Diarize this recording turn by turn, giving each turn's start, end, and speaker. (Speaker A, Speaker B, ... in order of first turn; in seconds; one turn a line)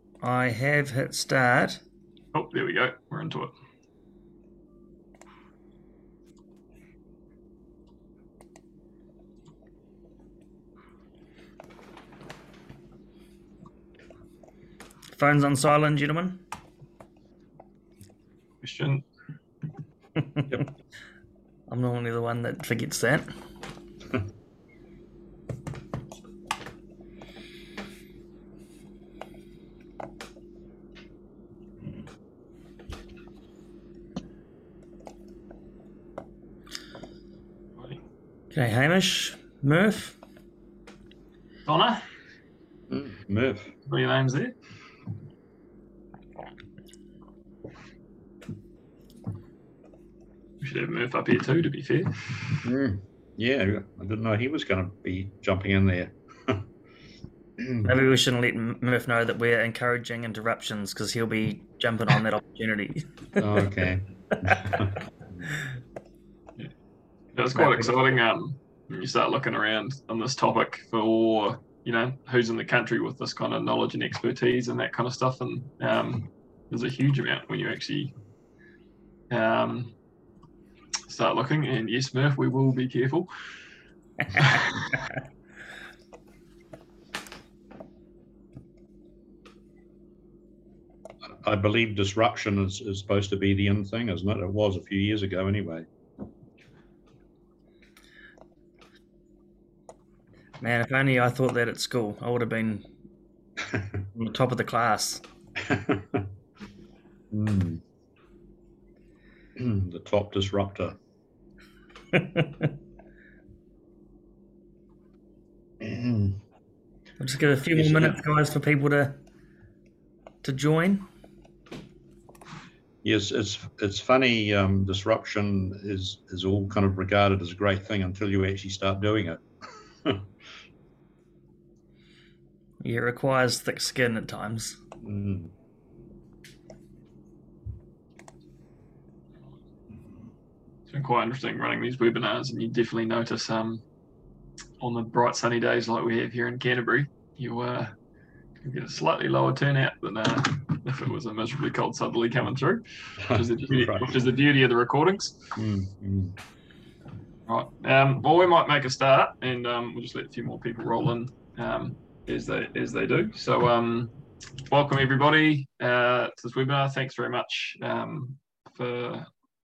Speaker A: 0.2-1.8
Speaker B: 2.3-3.5
Speaker A: 15.1-16.4
Speaker B: 18.6-19.0
Speaker A: 21.7-23.3
Speaker A: 38.5-40.1
Speaker B: 41.6-42.0
Speaker C: 42.9-43.7
Speaker B: 43.9-44.5
Speaker B: 50.6-52.6
Speaker C: 52.6-56.6
Speaker C: 57.6-57.9
Speaker A: 57.8-63.1
Speaker C: 63.4-65.0
Speaker B: 67.3-78.1
Speaker B: 79.3-79.9
Speaker B: 81.1-83.3
Speaker C: 91.4-95.8
Speaker A: 100.6-102.9
Speaker A: 104.1-105.2
Speaker C: 105.7-106.2
Speaker C: 107.3-107.8
Speaker C: 109.5-111.0
Speaker C: 115.8-116.4
Speaker A: 117.2-119.2
Speaker C: 117.7-118.2
Speaker A: 120.4-121.0
Speaker C: 123.0-129.4
Speaker A: 132.8-134.8
Speaker C: 135.0-135.5
Speaker B: 140.9-143.8
Speaker B: 144.8-147.9
Speaker B: 148.6-155.5
Speaker C: 153.3-154.1
Speaker C: 155.5-156.3
Speaker B: 157.5-164.1
Speaker B: 164.7-169.3